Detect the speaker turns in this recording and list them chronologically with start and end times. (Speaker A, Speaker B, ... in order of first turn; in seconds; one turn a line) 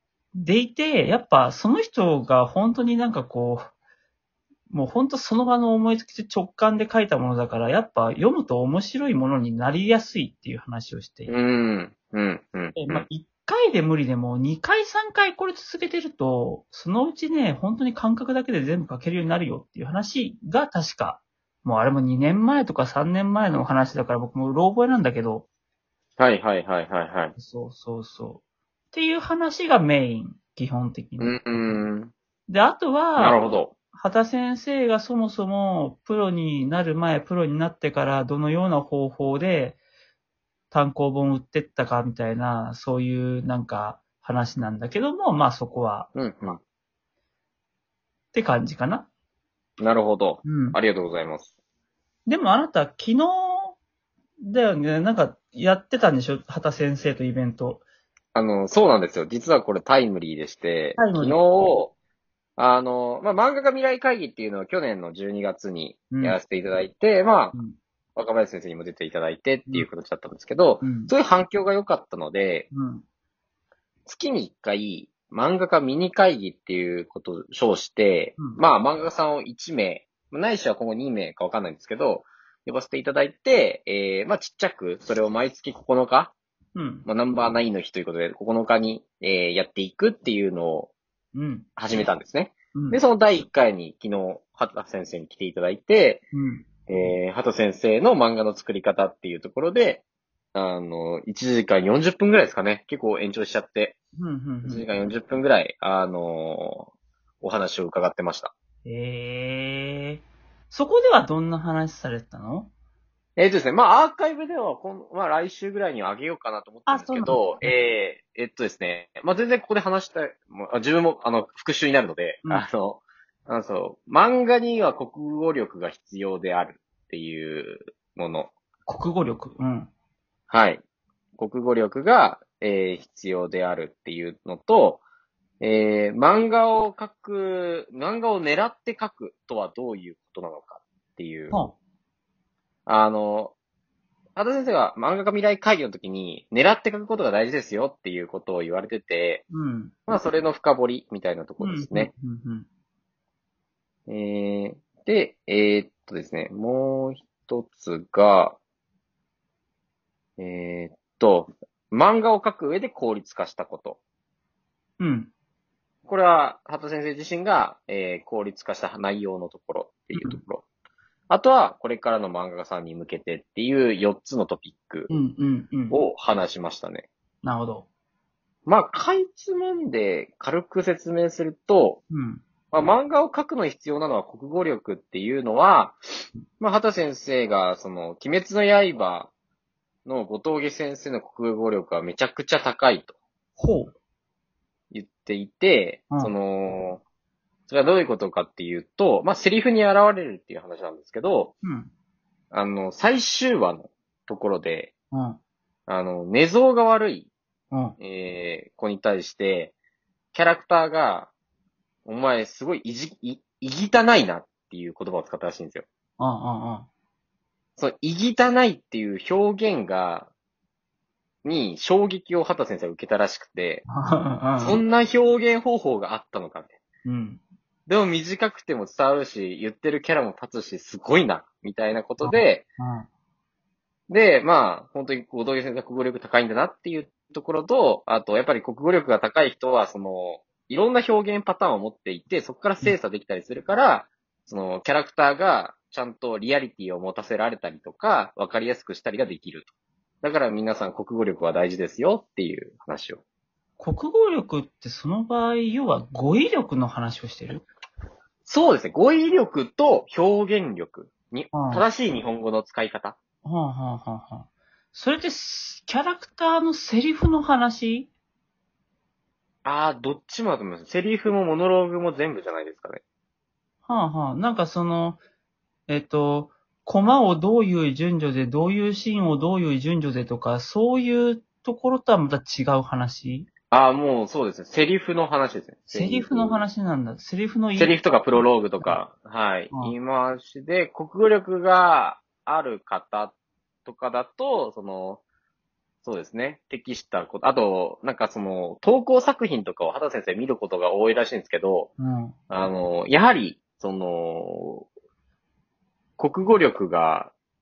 Speaker A: 0.3-3.7
Speaker A: 4.7-11.3
Speaker B: 11.3-13.1
Speaker A: 12.8-25.5
Speaker B: 26.2-27.3
Speaker A: 27.4-31.7
Speaker B: 31.2-32.1
Speaker A: 32.5-33.4
Speaker B: 33.2-33.7
Speaker A: 33.9-39.8
Speaker A: 40.7-46.1
Speaker B: 46.1-46.6
Speaker A: 48.3-49.1
Speaker B: 49.8-51.5
Speaker A: 50.4-50.8
Speaker A: 52.3-53.8
Speaker A: 54.4-57.8
Speaker B: 58.4-61.9
Speaker A: 61.0-61.4
Speaker B: 62.6-67.5
Speaker A: 66.1-66.4
Speaker B: 68.2-72.7
Speaker A: 70.8-71.1
Speaker A: 72.7-73.0
Speaker B: 74.1-86.3
Speaker A: 86.8-87.1
Speaker B: 87.1-90.9
Speaker A: 91.3-91.8
Speaker B: 91.8-96.3
Speaker A: 92.7-93.0
Speaker A: 96.3-96.7
Speaker B: 96.9-100.0
Speaker B: 100.5-104.0
Speaker A: 104.2-104.9
Speaker B: 104.7-106.9
Speaker B: 107.4-108.5
Speaker A: 108.8-112.7
Speaker B: 113.4-128.5
Speaker A: 116.9-117.7
Speaker A: 128.9-129.9
Speaker B: 130.5-130.8
Speaker B: 131.4-135.0
Speaker B: 135.6-141.6
Speaker B: 142.9-143.5
Speaker B: 144.4-149.4
Speaker A: 149.5-150.0
Speaker B: 150.1-152.1
Speaker A: 151.6-152.7
Speaker B: 154.1-158.6
Speaker B: 160.4-164.0
Speaker A: 165.0-165.3
Speaker B: 166.1-170.6
Speaker A: 170.2-170.4
Speaker B: 171.3-175.1
Speaker A: 175.1-176.0
Speaker B: 175.9-177.1
Speaker A: 177.4-177.9
Speaker B: 178.7-182.0
Speaker A: 182.1-182.4
Speaker B: 182.7-189.3
Speaker B: 190.1-193.2
Speaker A: 193.6-193.9
Speaker B: 194.9-197.0
Speaker B: 197.7-201.5
Speaker A: 201.6-201.9
Speaker B: 202.5-204.9
Speaker A: 205.1-205.4
Speaker B: 205.9-207.3
Speaker A: 207.7-208.0
Speaker B: 208.0-209.7
Speaker B: 210.3-211.3
Speaker B: 212.1-215.9
Speaker A: 216.2-216.9
Speaker B: 217.8-220.3
Speaker B: 221.4-223.8
Speaker A: 223.9-224.8
Speaker B: 224.6-226.8
Speaker A: 227.1-227.4
Speaker B: 227.9-232.7
Speaker A: 232.2-233.1
Speaker B: 234.1-249.7
Speaker B: 250.2-253.2
Speaker A: 253.8-257.7
Speaker B: 258.5-263.2
Speaker A: 261.5-261.9
Speaker A: 263.4-268.1
Speaker B: 269.6-273.0
Speaker A: 273.9-275.2
Speaker A: 275.9-283.5
Speaker B: 283.7-286.6
Speaker A: 285.9-287.9
Speaker B: 287.8-293.3
Speaker B: 293.9-295.2
Speaker B: 296.0-301.9
Speaker A: 302.0-302.4
Speaker B: 302.5-304.9
Speaker B: 306.2-307.3